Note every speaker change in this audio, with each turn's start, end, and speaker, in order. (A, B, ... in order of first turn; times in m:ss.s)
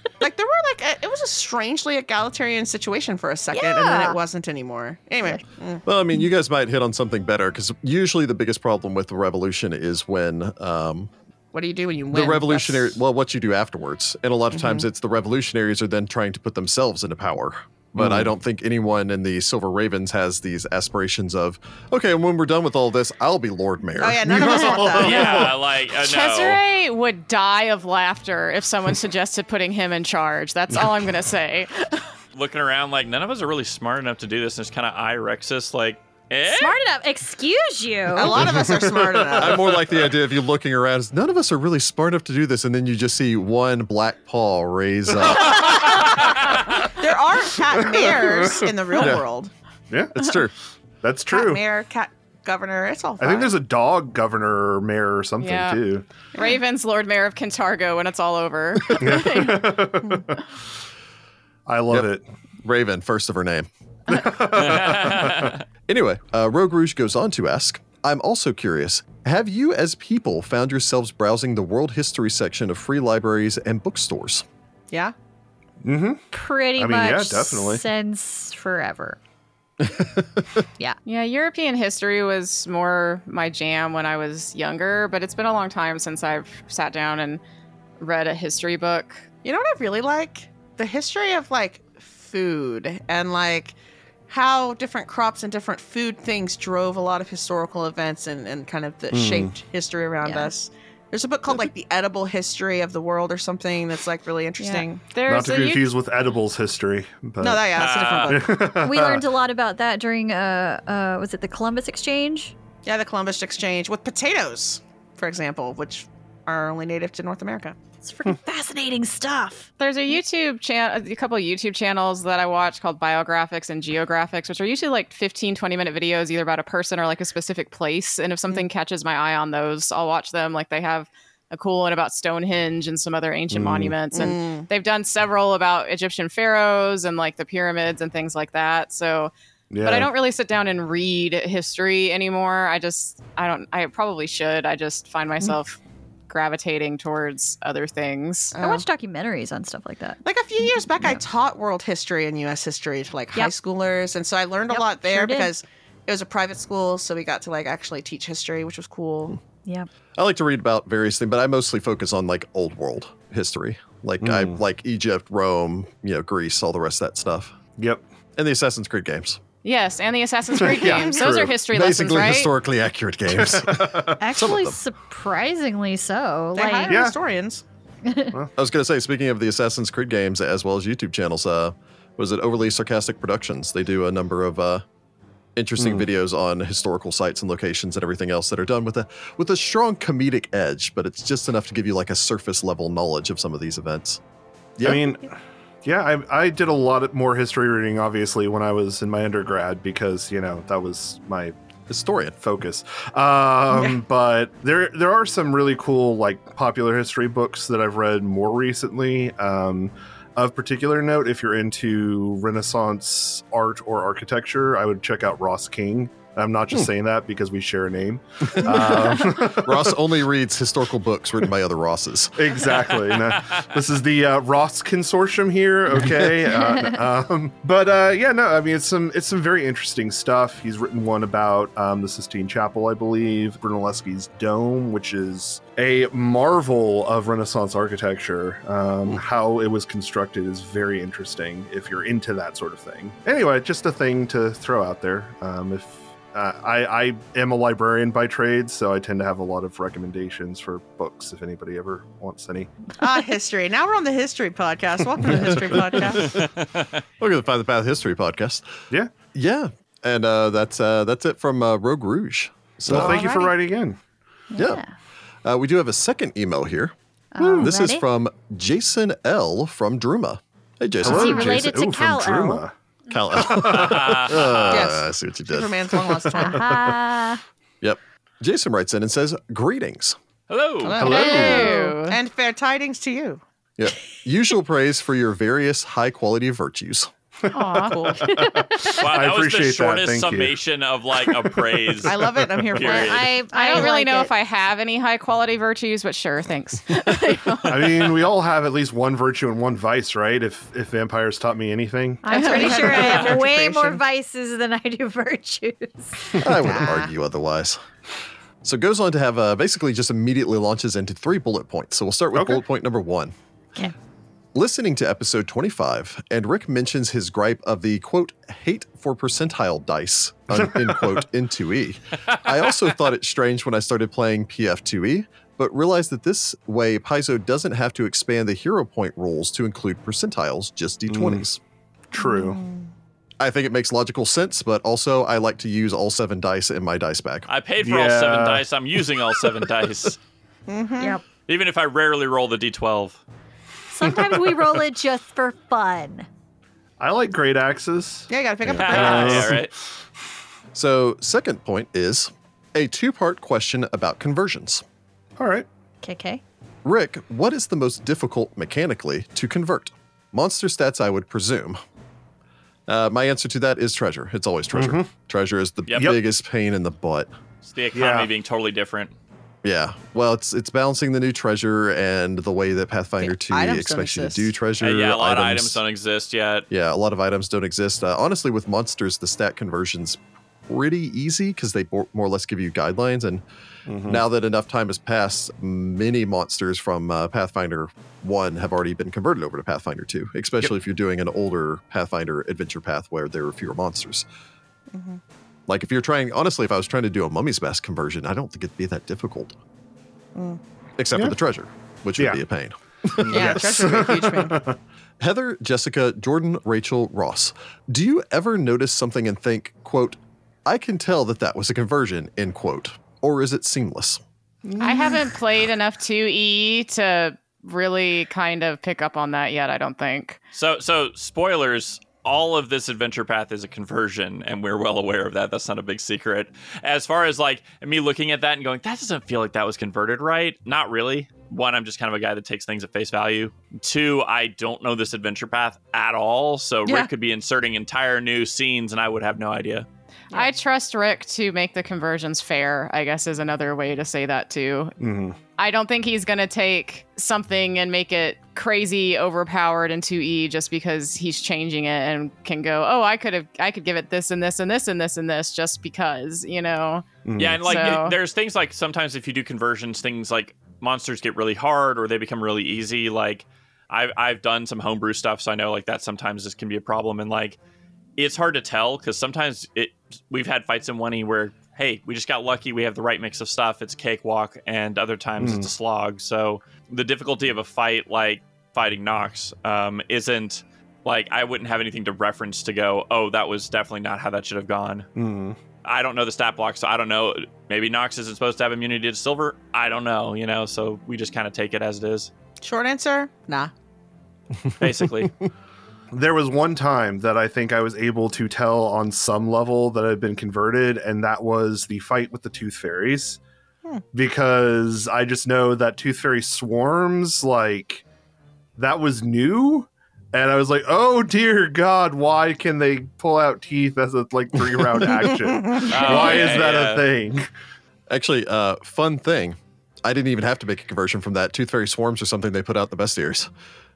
0:00.2-0:05.8 A
0:03.5-0:04.2 B
0:05.8-0:11.1 C
0:11.5-0:12.9 A
0:12.1-0:24.4 C
0:14.5-0:14.8 A
0:18.0-0:18.3 D
0:24.0-0:25.5 A
0:24.2-0:25.5 D
0:24.9-0:26.6 E
0:25.0-0:32.0 F
0:32.3-0:36.8 E
0:36.4-0:38.5 B
0:38.1-0:39.8 A
0:38.5-0:39.6 D
0:39.3-0:46.0 C
0:46.8-0:49.5 A
0:47.7-0:48.7 D
0:49.0-0:49.2 C
0:49.9-0:50.4 D
0:50.1-0:50.5 C
0:51.0-0:51.6 D
0:51.3-0:53.6 A
0:53.2-0:56.0 D
0:55.4-0:55.8 F
0:56.3-0:59.8 F
0:59.0-1:00.4 D
1:01.6-1:02.2 D
1:02.6-1:03.7 C
1:04.1-1:05.5 D
1:04.5-1:05.6 E
1:05.9-1:14.4 C
1:15.8-1:17.8 D
1:16.3-1:19.2 B
1:19.8-1:20.6 C
1:21.0-1:27.4 F
1:28.0-1:29.2 F
1:29.4-1:33.7 A
1:34.3-1:45.0 A
1:39.1-1:39.6 D
1:40.2-1:40.5 B
1:44.6-1:45.9 F
1:45.2-1:49.2 D
1:47.4-1:48.7 A
1:47.7-1:48.4 E
1:48.8-1:52.5 B
1:52.8-1:57.8 A
1:58.0-1:59.7 B
1:59.8-2:19.3 F
2:13.5-2:13.9 D
2:14.1-2:14.7 A
2:19.7-2:20.1 D
2:19.8-2:28.6 F
2:28.5-2:28.8 A
2:28.6-2:31.2 B
2:30.2-2:39.4 A
2:34.7-2:35.5 B
2:40.2-2:47.6 C
2:44.2-2:44.6 D
2:47.8-2:48.0 D
2:48.4-2:49.4 C
2:49.6-2:52.5 F
2:50.6-2:51.6 D
2:51.7-2:54.8 C
2:53.3-2:54.2 D
2:54.2-2:57.0 B
2:56.5-2:57.6 A
2:56.8-2:57.2 D
2:58.0-2:58.3 B
2:58.5-3:04.8 C
3:05.6-3:14.2 C
3:05.8-3:06.0 D
3:14.8-3:15.3 D
3:15.8-3:21.5 D
3:21.9-3:22.4 C
3:22.4-3:40.0 D
3:38.6-3:42.6 C
3:42.4-4:12.7 D
4:13.0-4:16.5 A
4:15.2-4:15.7 D
4:15.2-4:16.5 C
4:16.1-4:17.0 E
4:17.2-4:18.8 C
4:19.3-4:23.3 C
4:22.9-4:24.0 D
4:22.9-4:23.6 A
4:24.5-4:24.9 B
4:24.6-4:24.8 C
4:25.4-4:26.9 C
4:27.3-4:28.0 B
4:27.6-4:31.6 C
4:31.0-4:32.7 D
4:31.0-4:32.6 B
4:33.1-4:36.0 C
4:33.3-4:34.2 D
4:33.4-4:34.9 E
4:34.7-4:36.7 A
4:36.0-4:37.0 D
4:36.4-4:37.4 B
4:37.8-4:40.2 C
4:40.5-4:41.1 E
4:40.8-4:43.4 A
4:41.0-4:41.7 D
4:41.0-4:42.2 F
4:41.4-4:42.0 B
4:43.8-4:47.1 C
4:47.5-4:50.6 D
4:47.5-4:48.2 F
4:47.7-4:48.2 A
4:48.2-4:49.0 B
4:48.8-4:53.4 E
4:52.0-4:52.8 D
4:52.0-4:54.0 A
4:52.8-4:54.3 B
4:53.5-4:58.2 F
4:57.6-5:02.3 D
5:02.2-5:06.4 B
5:02.3-5:02.8 F
5:02.3-5:04.0 A
5:06.4-5:07.8 C
5:06.6-5:07.1 A
5:08.6-5:13.3 C
5:12.3-5:12.6 D
5:14.5-5:31.6 C
5:20.7-5:21.2 D
5:31.1-5:31.4 D
5:32.1-5:32.6 D
5:32.2-5:32.7 A
5:33.4-5:37.5 C
5:37.5-5:40.2 E
5:37.8-5:38.6 D
5:40.7-5:41.2 A
5:41.5-5:43.2 E
5:43.9-5:46.3 B
5:47.0-5:49.7 D
5:48.3-5:49.6 A
5:48.7-5:49.7 E
5:50.7-5:54.8 C
5:55.4-5:55.7 D
5:56.0-5:56.4 B
5:56.8-6:01.8 C
6:02.9-6:07.3 C
6:04.7-6:05.1 D
6:05.9-6:06.1 E
6:05.9-6:06.2 D
6:07.6-6:09.1 E
6:07.9-6:08.3 D
6:09.6-6:15.8 C
6:13.2-6:14.5 A
6:14.8-6:16.7 E
6:16.7-6:23.4 C
6:23.9-6:24.2 D
6:24.0-6:34.2 C
6:34.9-6:35.2 A
6:35.7-6:39.6 C
6:40.3-6:40.6 A
6:41.0-6:44.0 C
6:43.2-6:44.8 D
6:43.2-6:44.7 A
6:45.2-6:54.2 C
6:54.7-6:55.1 D
6:54.8-7:00.4 F
7:00.5-7:19.8 E
7:16.8-7:17.1 A
7:20.3-7:25.0 F
7:25.0-7:25.4 D
7:25.6-7:37.1 F
7:37.2-7:37.7 D
7:37.4-7:47.6 E
7:37.6-7:38.2 F
7:48.2-8:05.1 E
7:55.4-7:55.7 D
8:05.2-8:05.6 D
8:05.8-8:12.3 E
8:12.6-8:13.7 A
8:14.8-8:15.3 E
8:14.8-8:15.3 C
8:16.1-8:23.4 D
8:24.1-8:28.0 D
8:28.8-8:37.5 D
8:35.8-8:37.0 E
8:36.0-8:36.3 A
8:38.1-8:43.5 C